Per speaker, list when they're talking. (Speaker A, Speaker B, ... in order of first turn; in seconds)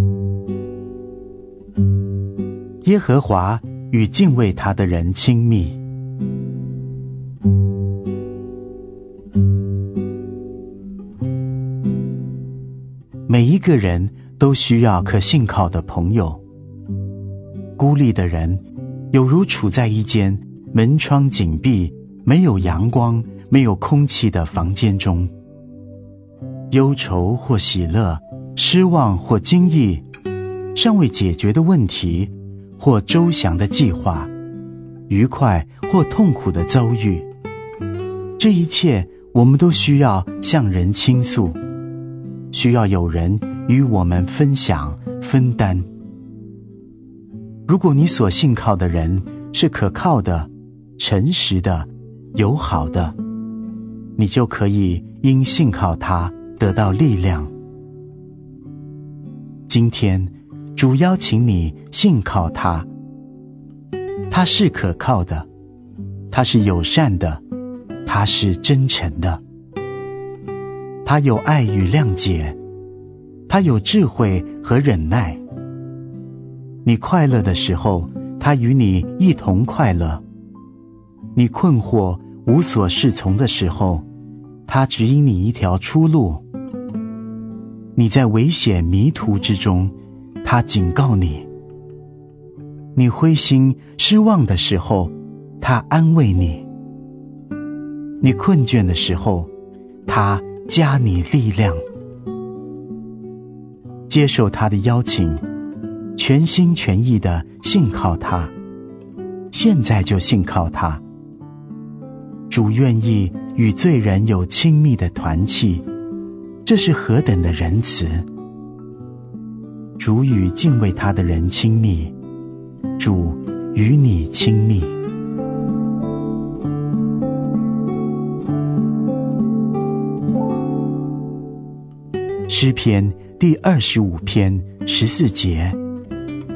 Speaker A: 2.8-5.8, 13.3-16.4, 17.8-25.3, 26.7-30.0, 30.7-34.3, 35.1-37.3, 38.4-41.6, 42.5-45.9, 47.7-53.1, 54.2-57.5, 59.7-62.9, 64.3-65.5, 66.3-67.4, 68.0-69.4, 71.0-72.6, 73.5-75.4, 76.8-80.2, 81.3-84.0, 84.7-86.4, 88.0-91.5, 93.0-96.7, 98.2-99.5, 100.0-101.8, 104.1-105.4, 106.2-108.5, 109.5-111.0, 112.5-115.8, 116.6-118.2, 120.0-122.1, 123.0-125.0, 132.5-135.8